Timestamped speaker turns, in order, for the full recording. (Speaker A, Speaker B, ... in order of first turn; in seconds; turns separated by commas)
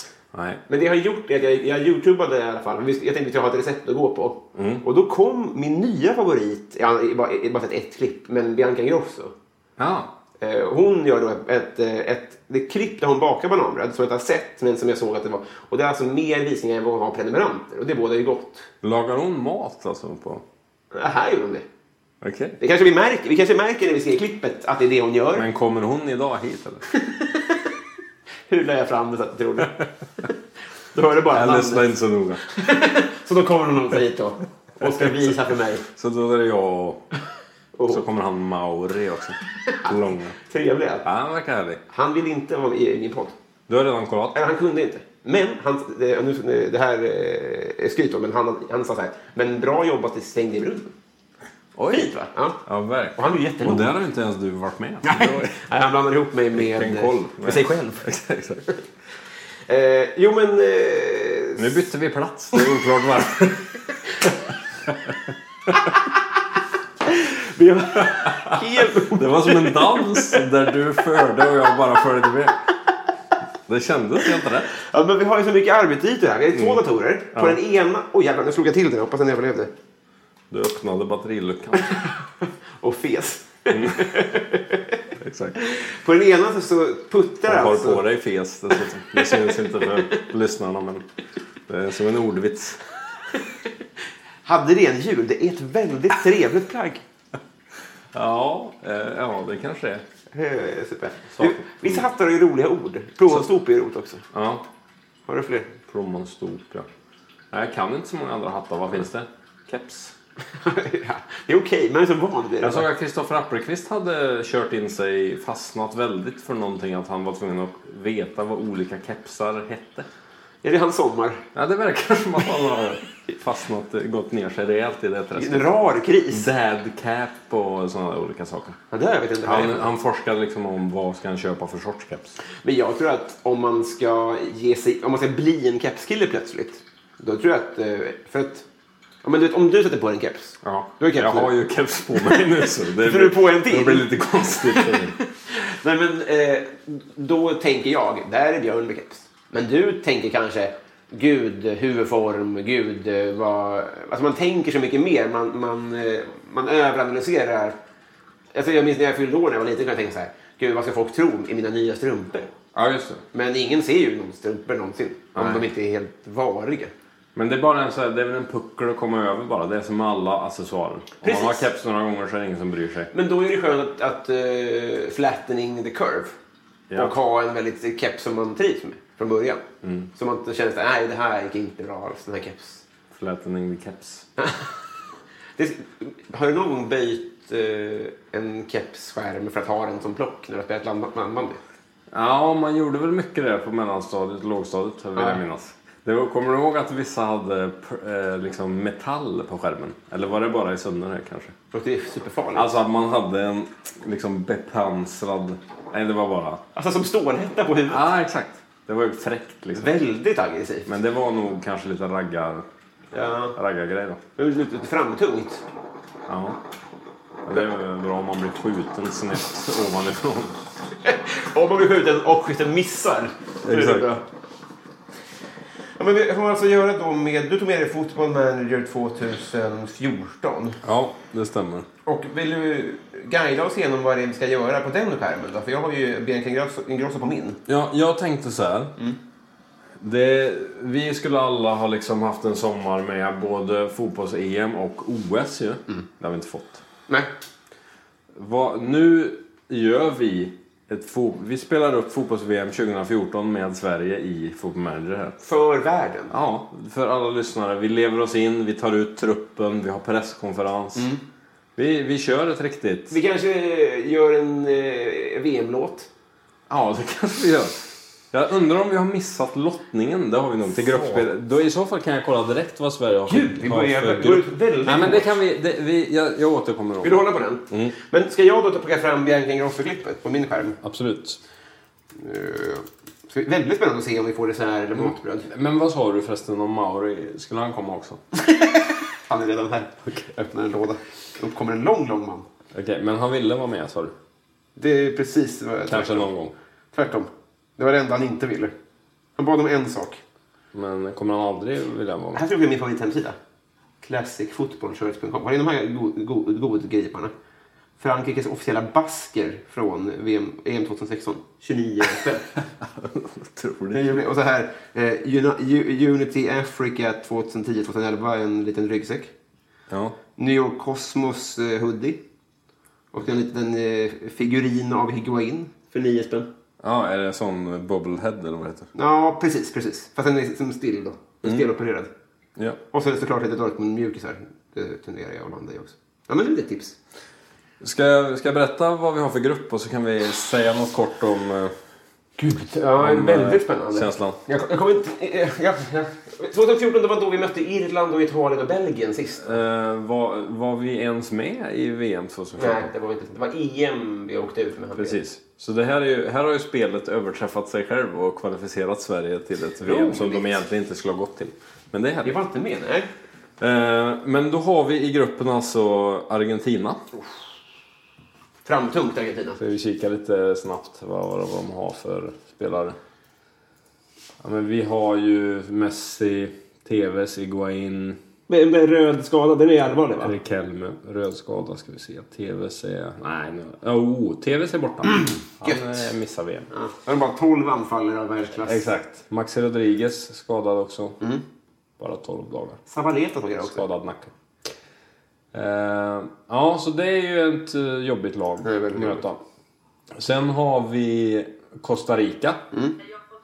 Speaker A: 0.3-0.6, Speaker B: 0.7-9.3, Speaker A: 4.5-4.8, Speaker A: 9.8-10.1, Speaker B: 10.4-18.7, Speaker A: 18.8-20.4, Speaker B: 20.9-21.7, Speaker A: 22.2-22.6, Speaker B: 22.6-25.4, Speaker A: 25.4-26.9, Speaker B: 26.9-27.7, Speaker B: 28.5-30.3, Speaker B: 30.9-31.9, Speaker A: 31.3-32.4, Speaker B: 32.4-35.8, Speaker A: 35.9-37.0, Speaker B: 37.8-38.0, Speaker A: 37.9-40.4, Speaker B: 39.7-41.1, Speaker A: 41.0-41.8, Speaker B: 41.9-43.4, Speaker A: 43.7-44.4, Speaker B: 44.3-50.9, Speaker A: 51.8-52.1, Speaker B: 51.9-52.6, Speaker A: 52.6-55.6, Speaker B: 53.2-53.9, Speaker B: 55.0-58.1, Speaker A: 56.5-58.7, Speaker B: 59.7-61.8, Speaker A: 61.6-64.3, Speaker B: 65.7-66.2, Speaker B: 67.0-70.5, Speaker A: 69.1-72.6, Speaker A: 73.7-74.7, Speaker B: 74.8-79.7, Speaker A: 80.5-81.9, Speaker B: 81.9-85.0, Speaker A: 83.7-84.1, Speaker A: 85.2-85.6, Speaker B: 85.6-88.0, Speaker A: 87.5-91.0, Speaker B: 89.2-90.1, Speaker A: 91.7-92.8, Speaker B: 94.4-97.0, Speaker A: 98.1-100.0, Speaker B: 100.3-104.2, Speaker A: 101.3-102.0, Speaker A: 104.3-104.6, Speaker B: 105.3-105.8, Speaker A: 105.9-106.9, Speaker A: 107.5-110.1, Speaker B: 110.5-112.9, Speaker A: 112.6-120.1, Speaker B: 120.6-121.4, Speaker A: 121.5-125.7, Speaker B: 125.3-126.5, Speaker A: 126.3-128.8, Speaker B: 128.9-129.9, Speaker A: 129.4-132.3, Speaker B: 132.6-138.6, Speaker B: 139.2-141.5, Speaker A: 140.6-145.2, Speaker B: 142.1-157.8, Speaker B: 158.5-162.5, Speaker A: 162.8-163.2, Speaker B: 163.3-166.9, Speaker A: 165.3-165.6, Speaker A: 167.3-173.1, Speaker B: 171.2-171.7, Speaker B: 173.1-176.4, Speaker B: 176.9-179.6, Speaker A: 179.8-180.1, Speaker B: 180.1-182.8, Speaker A: 183.1-184.2, Speaker B: 184.4-184.7, Speaker B: 185.6-191.6, Speaker A: 192.1-201.5, Speaker B: 195.2-195.4, Speaker B: 201.7-202.7, Speaker A: 202.5-206.6, Speaker B: 206.7-208.1, Speaker A: 207.9-209.9, Speaker B: 209.8-210.9, Speaker A: 210.9-212.6, Speaker B: 213.1-213.6, Speaker A: 213.6-214.2, Speaker B: 214.4-215.6, Speaker A: 216.3-216.6, Speaker A: 217.4-220.6, Speaker B: 221.0-224.2, Speaker A: 223.7-224.1, Speaker B: 226.0-230.8, Speaker A: 230.8-231.9, Speaker B: 232.1-237.6, Speaker A: 237.7-238.9, Speaker A: 240.0-246.8, Speaker A: 248.3-255.4, Speaker B: 255.4-256.3, Speaker A: 256.3-261.1, Speaker B: 260.9-261.2, Speaker A: 261.8-263.2, Speaker B: 263.1-266.1, Speaker A: 266.7-267.7, Speaker A: 268.3-277.9, Speaker B: 270.9-271.2, Speaker B: 273.3-275.3, Speaker B: 277.0-280.8, Speaker A: 280.8-281.4, Speaker B: 282.1-285.5, Speaker A: 285.5-288.2, Speaker B: 288.5-292.5, Speaker A: 292.7-294.1, Speaker B: 294.8-296.3, Speaker A: 295.9-296.6, Speaker B: 296.9-298.7, Speaker B: 299.4-300.2, Speaker A: 300.7-302.4, Speaker B: 302.3-303.4, Speaker B: 304.0-307.3, Speaker B: 308.0-312.5, Speaker A: 312.8-314.2, Speaker B: 313.9-319.3, Speaker A: 319.9-320.2, Speaker B: 320.4-322.2, Speaker B: 323.1-326.5, Speaker A: 326.8-328.9, Speaker B: 328.9-332.1, Speaker B: 332.9-336.9, Speaker A: 337.8-341.7, Speaker B: 342.4-349.6, Speaker A: 343.0-344.4, Speaker A: 349.4-352.9, Speaker B: 352.6-355.2, Speaker A: 354.9-362.4, Speaker B: 359.8-360.6, Speaker B: 362.2-363.1, Speaker A: 363.6-367.0, Speaker B: 368.6-369.6, Speaker A: 369.6-373.0, Speaker A: 374.4-378.2, Speaker B: 378.5-380.4, Speaker A: 380.2-386.7, Speaker B: 385.6-386.1, Speaker B: 386.7-388.9, Speaker A: 388.6-391.2, Speaker A: 392.0-392.8, Speaker B: 392.9-393.8, Speaker A: 393.6-394.3, Speaker A: 395.5-399.4, Speaker B: 398.6-399.2, Speaker A: 400.2-402.7